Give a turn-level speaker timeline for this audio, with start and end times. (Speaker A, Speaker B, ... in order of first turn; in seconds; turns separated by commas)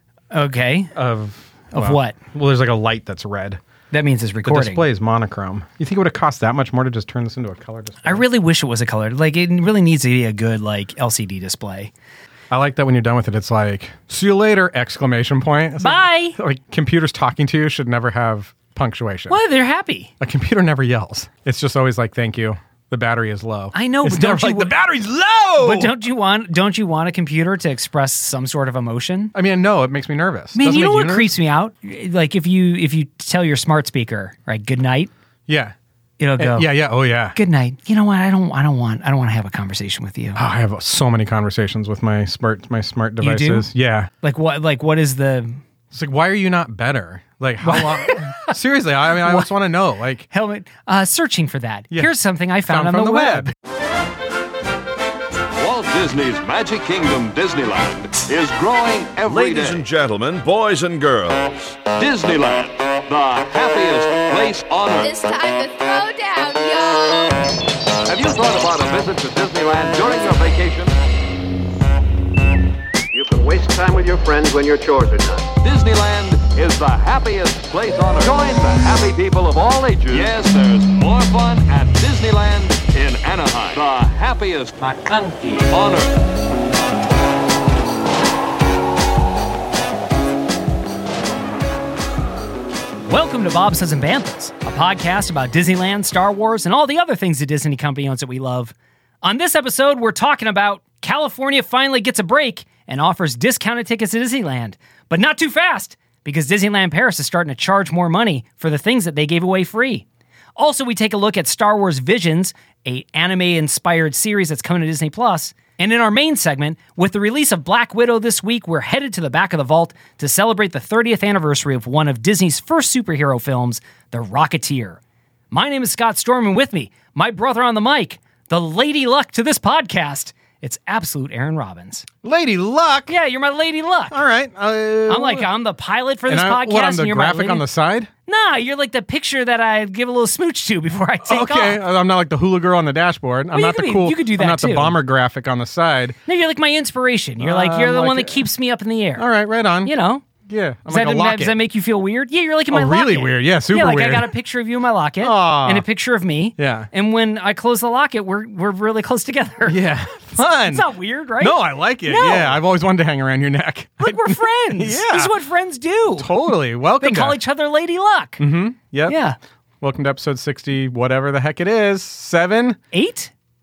Speaker A: 0.3-0.9, Speaker B: 0.9-3.6, Speaker A: 1.7-2.2, Speaker A: 3.9-4.8, Speaker B: 4.4-8.2, Speaker A: 8.0-11.9, Speaker B: 12.5-19.4, Speaker A: 15.8-16.4, Speaker A: 19.3-20.1, Speaker B: 20.2-25.9, Speaker A: 23.7-24.7, Speaker A: 25.6-29.3, Speaker B: 29.3-31.3, Speaker A: 30.6-35.1, Speaker B: 35.5-35.7, Speaker A: 36.2-36.7, Speaker B: 36.4-37.4, Speaker A: 37.3-40.4, Speaker B: 40.4-44.1, Speaker A: 43.2-43.7, Speaker A: 44.2-45.6, Speaker B: 45.9-50.3, Speaker A: 47.6-48.5, Speaker A: 49.2-49.5, Speaker A: 50.3-53.5, Speaker B: 52.6-53.5, Speaker C: 55.6-59.8, Speaker D: 59.2-61.8, Speaker C: 62.0-65.2, Speaker E: 65.0-67.4, Speaker C: 68.0-70.9, Speaker F: 73.1-75.5, Speaker C: 75.6-86.2, Speaker A: 93.0-110.0, Speaker A: 110.6-125.0, Speaker A: 125.5-132.1, Speaker B: 132.2-133.1, Speaker A: 133.1-134.2, Speaker B: 134.1-135.5, Speaker A: 135.1-137.6, Speaker B: 136.3-138.1, Speaker A: 138.3-141.8, Speaker B: 141.2-146.2, Speaker A: 143.5-145.0, Speaker A: 146.3-149.2, Speaker B: 147.4-148.4, Speaker B: 149.2-151.5, Speaker A: 149.8-150.2, Speaker A: 150.9-159.8, Speaker B: 152.7-154.3, Speaker B: 155.2-155.8, Speaker B: 156.6-156.9, Speaker B: 159.6-160.9, Speaker A: 160.4-162.6, Speaker B: 161.4-165.3, Speaker A: 164.0-168.4, Speaker B: 166.2-167.4, Speaker B: 168.4-169.2, Speaker A: 169.1-169.4, Speaker B: 169.8-172.8, Speaker A: 172.9-173.3